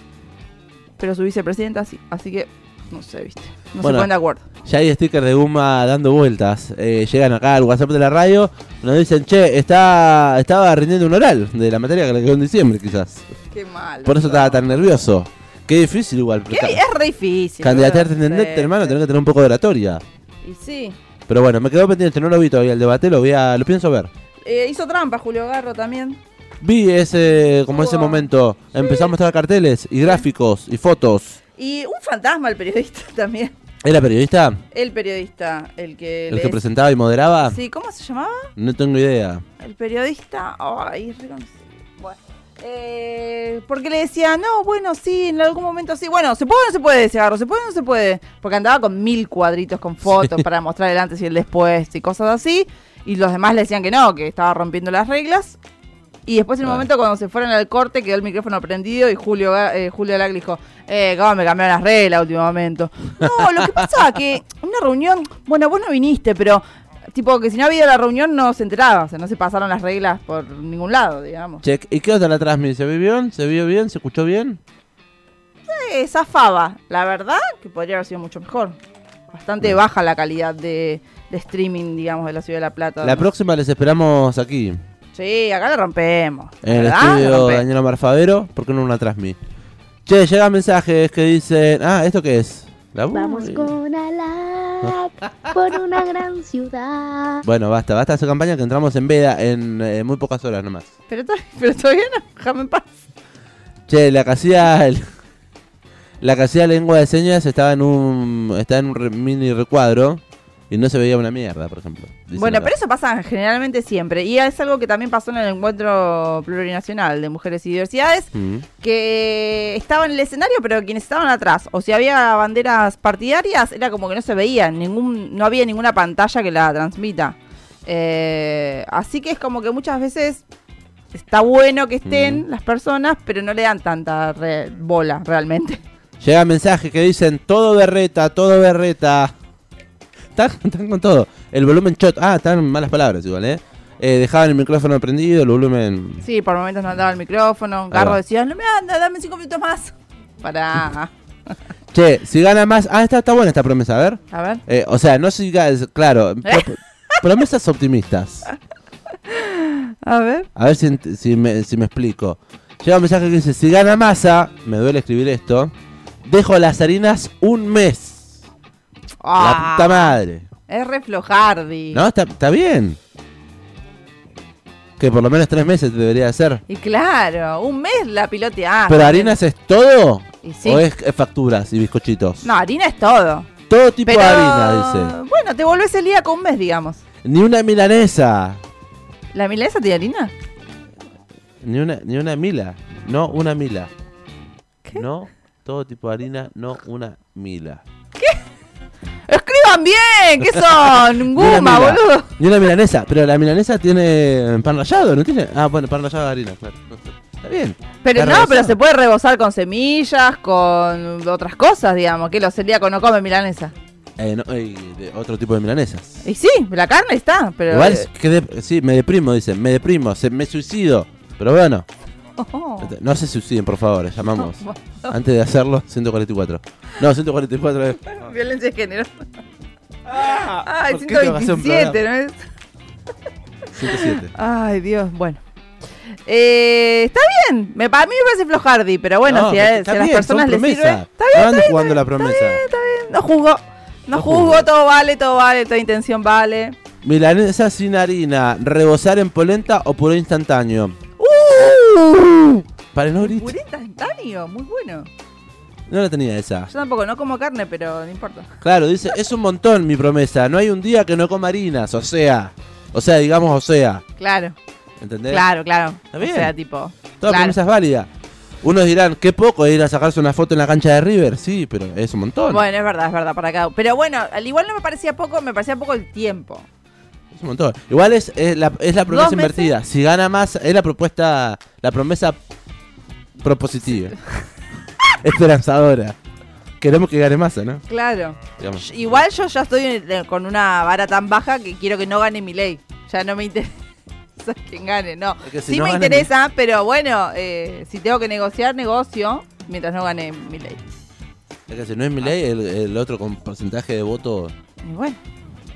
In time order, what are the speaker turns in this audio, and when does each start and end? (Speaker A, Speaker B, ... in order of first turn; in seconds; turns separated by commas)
Speaker A: 1.0-4.5, Speaker B: 3.8-4.1, Speaker B: 4.7-13.3, Speaker A: 13.5-14.7, Speaker B: 14.1-16.8, Speaker A: 16.5-19.0, Speaker B: 17.6-20.0, Speaker A: 20.4-21.0, Speaker B: 21.3-24.1, Speaker A: 24.4-26.2, Speaker B: 26.6-31.4, Speaker A: 27.7-29.1, Speaker A: 31.6-33.5, Speaker B: 33.8-34.6, Speaker A: 34.7-36.6, Speaker B: 36.3-37.6, Speaker A: 37.4-38.5, Speaker B: 38.6-39.4, Speaker A: 39.6-55.6, Speaker B: 50.1-50.4, Speaker A: 56.3-66.6, Speaker B: 63.3-63.8, Speaker A: 67.2-71.6, Speaker B: 71.6-74.6, Speaker A: 75.7-78.8, Speaker A: 79.3-83.3, Speaker B: 83.0-84.8, Speaker A: 85.1-87.7, Speaker B: 86.6-89.4, Speaker B: 90.1-93.7, Speaker C: 93.1-97.5, Speaker B: 94.8-95.5, Speaker B: 97.4-100.9, Speaker A: 101.1-102.9, Speaker B: 103.9-105.0, Speaker B: 106.2-112.7, Speaker A: 112.4-130.4, Speaker B: 118.3-118.7, Speaker A: 131.1-135.8, Speaker B: 132.1-132.4, Speaker B: 136.2-139.3, Speaker B: 140.4-146.2, Speaker A: 146.2-151.1, Speaker B: 147.9-148.2, Speaker B: 151.9-158.5, Speaker A: 154.3-154.6, Speaker A: 156.4-157.2, Speaker A: 159.3-160.5, Speaker B: 160.6-165.7, Speaker B: 166.2-168.4, Speaker A: 169.2-172.0, Speaker B: 169.4-170.5, Speaker B: 171.9-173.0, Speaker B: 175.0-176.6, Speaker A: 176.7-179.4, Speaker B: 178.9-182.4, Speaker A: 180.4-180.8, Speaker A: 182.4-183.5, Speaker B: 183.7-185.2, Speaker A: 184.1-187.0, Speaker B: 187.2-188.6, Speaker A: 189.3-190.3, Speaker B: 191.6-193.9, Speaker B: 194.9-197.8, Speaker A: 199.3-202.3, Speaker B: 200.5-208.8, Speaker A: 208.0-213.7, Speaker B: 214.2-216.2, Speaker A: 216.2-218.1, Speaker B: 217.7-221.9, Speaker A: 222.4-222.9, Speaker B: 222.8-228.3, Speaker A: 224.4-225.1, Speaker A: 228.1-229.2, Speaker B: 230.1-232.1, Speaker A: 230.2-232.4, Speaker B: 233.7-234.3, Speaker A: 233.8-235.4, Speaker A: 236.3-246.8, Speaker B: 239.3-242.6, Speaker B: 244.1-244.7, Speaker B: 247.0-251.0, Speaker A: 251.2-252.7, Speaker B: 252.9-253.5, Speaker A: 253.2-255.1, Speaker B: 255.9-256.7, Speaker A: 256.7-258.5, Speaker B: 258.6-264.0, Speaker A: 264.2-264.6, Speaker B: 265.0-265.5, Speaker A: 265.3-267.6, Speaker B: 266.1-266.5, Speaker B: 267.2-268.1, Speaker B: 268.6-272.6, Speaker A: 272.5-276.7, Speaker B: 277.3-282.4, Speaker A: 279.0-279.7, Speaker B: 283.4-284.2, Speaker B: 285.2-286.2, Speaker B: 286.8-287.9, Speaker A: 287.9-293.7, Speaker B: 288.6-289.2, Speaker A: 294.4-300.9, Speaker B: 295.4-296.3, Speaker B: 301.7-304.5, Speaker A: 304.8-305.2